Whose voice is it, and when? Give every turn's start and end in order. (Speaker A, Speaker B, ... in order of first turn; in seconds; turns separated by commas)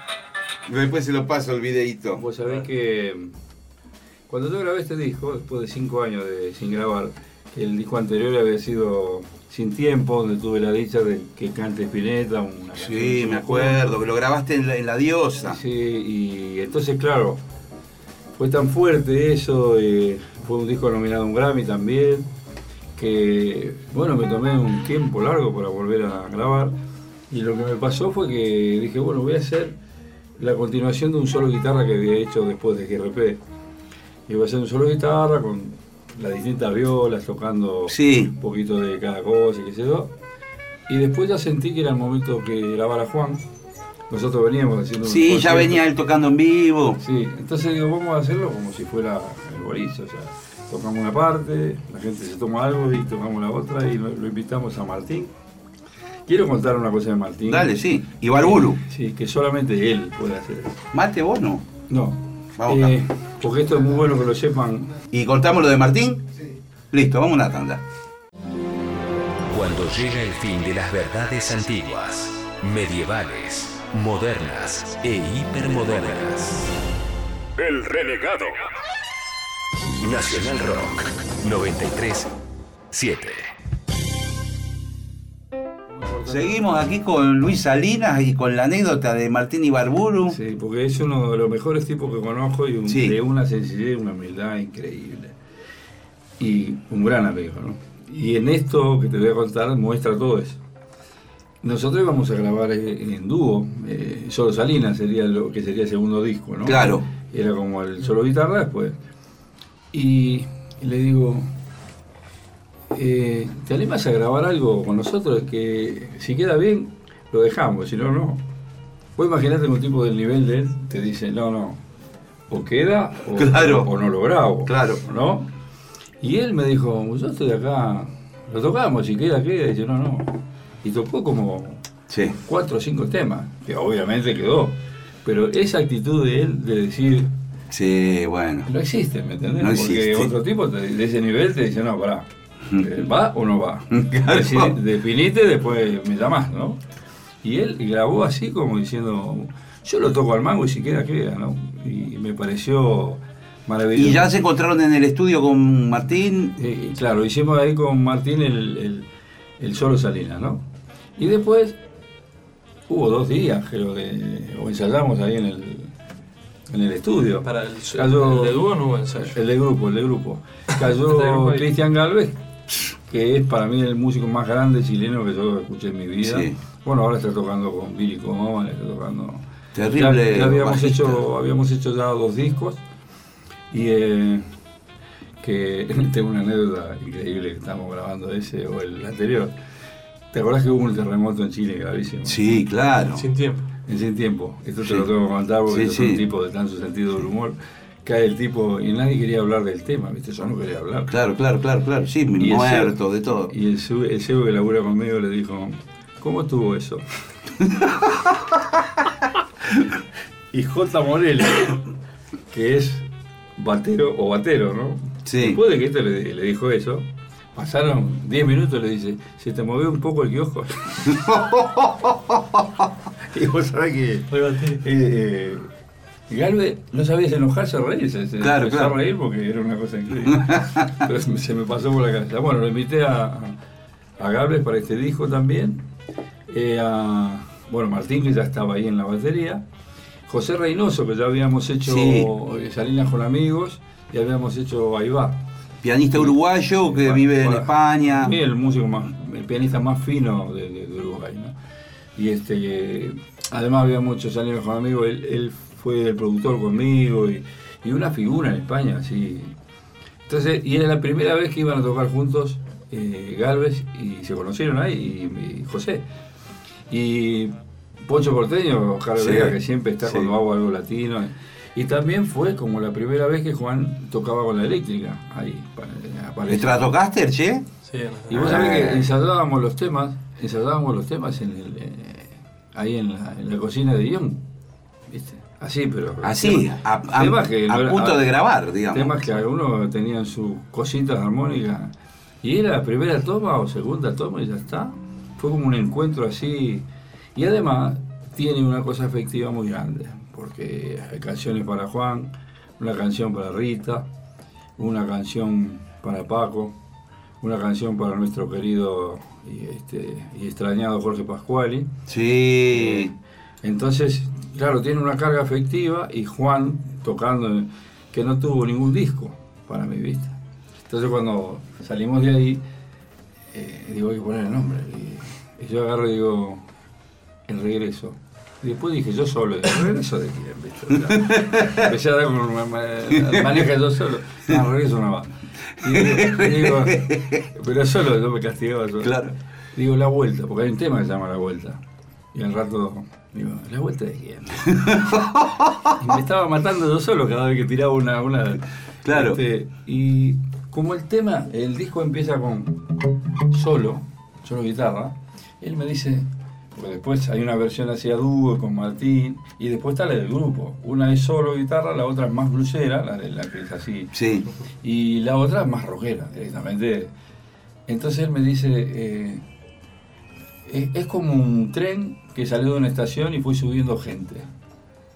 Speaker A: 0.7-2.2, Speaker B: 2.2-3.4, Speaker B: 4.3-13.9, Speaker A: 12.8-15.6, Speaker B: 15.5-17.4, Speaker B: 18.4-22.3, Speaker B: 22.9-26.7, Speaker B: 27.3-29.8, Speaker B: 30.4-33.4, Speaker B: 34.3-40.1, Speaker A: 37.9-38.3, Speaker B: 40.9-43.4, Speaker B: 44.1-45.8, Speaker A: 45.0-47.0, Speaker B: 47.0-55.3, Speaker B: 56.2-57.8, Speaker A: 57.5-58.8, Speaker B: 58.3-60.8, Speaker A: 60.9-61.7, Speaker B: 61.9-65.0, Speaker A: 62.6-62.9, Speaker A: 65.1-66.3, Speaker A: 66.9-67.8, Speaker C: 69.5-76.8, Speaker C: 77.5-78.7, Speaker C: 80.0-82.3, Speaker C: 82.9-83.5, Speaker A: 86.2-90.4, Speaker B: 90.3-95.3, Speaker A: 92.9-93.2, Speaker B: 96.4-100.6, Speaker B: 101.6-109.0, Speaker A: 106.6-107.0, Speaker B: 109.9-111.5, Speaker B: 112.9-118.4, Speaker B: 119.2-121.8, Speaker B: 122.5-125.5, Speaker A: 123.3-123.9, Speaker A: 124.7-125.0, Speaker B: 126.2-131.8, Speaker A: 132.1-132.4, Speaker B: 132.3-137.3, Speaker A: 137.7-138.7, Speaker B: 138.7-146.8, Speaker A: 139.6-140.3, Speaker A: 143.9-144.7, Speaker B: 147.4-154.3, Speaker A: 153.9-156.5, Speaker B: 156.6-159.1, Speaker B: 159.6-160.6, Speaker B: 161.2-161.8, Speaker B: 162.9-165.9, Speaker B: 166.7-172.4, Speaker D: 167.4-169.4, Speaker D: 170.9-171.7, Speaker B: 173.1-182.8, Speaker A: 176.2-176.5, Speaker A: 179.7-181.2, Speaker B: 183.7-184.4, Speaker B: 185.4-189.5, Speaker B: 190.3-192.5, Speaker A: 192.2-193.2, Speaker D: 193.1-193.7, Speaker B: 193.9-201.1, Speaker A: 195.7-196.2, Speaker A: 201.1-203.5, Speaker B: 202.4-207.1, Speaker A: 207.8-208.3, Speaker B: 210.5-211.8, Speaker B: 212.5-221.4, Speaker A: 215.2-215.6, Speaker A: 221.1-222.6, Speaker B: 223.2-225.7, Speaker D: 224.3-224.8, Speaker B: 226.3-233.6, Speaker A: 228.4-229.0, Speaker A: 230.3-230.9, Speaker B: 234.2-235.8, Speaker B: 236.5-239.6, Speaker B: 240.3-245.4, Speaker A: 241.8-242.3, Speaker A: 245.8-248.3, Speaker B: 246.1-251.5, Speaker B: 252.2-259.6, Speaker B: 260.3-266.0, Speaker B: 266.9-276.9, Speaker A: 269.2-270.3, Speaker A: 276.5-277.6, Speaker D: 277.8-278.6, Speaker B: 278.3-284.4, Speaker A: 278.3-279.1, Speaker B: 285.1-288.2, Speaker A: 286.2-289.1, Speaker B: 288.9-304.1, Speaker B: 304.8-306.7, Speaker B: 307.4-311.9, Speaker A: 312.1-313.1, Speaker B: 312.7-313.1, Speaker B: 313.6-320.4, Speaker B: 320.9-322.6, Speaker B: 323.5-326.6, Speaker B: 327.5-341.8, Speaker A: 331.1-331.9, Speaker A: 333.1-333.6, Speaker A: 335.8-337.5, Speaker A: 339.0-339.3, Speaker B: 342.3-344.9, Speaker A: 344.7-345.9, Speaker B: 345.9-352.8, Speaker A: 349.0-349.4, Speaker B: 353.5-364.1, Speaker A: 364.1-364.5, Speaker B: 364.8-367.1, Speaker B: 367.9-369.4, Speaker B: 370.6-374.5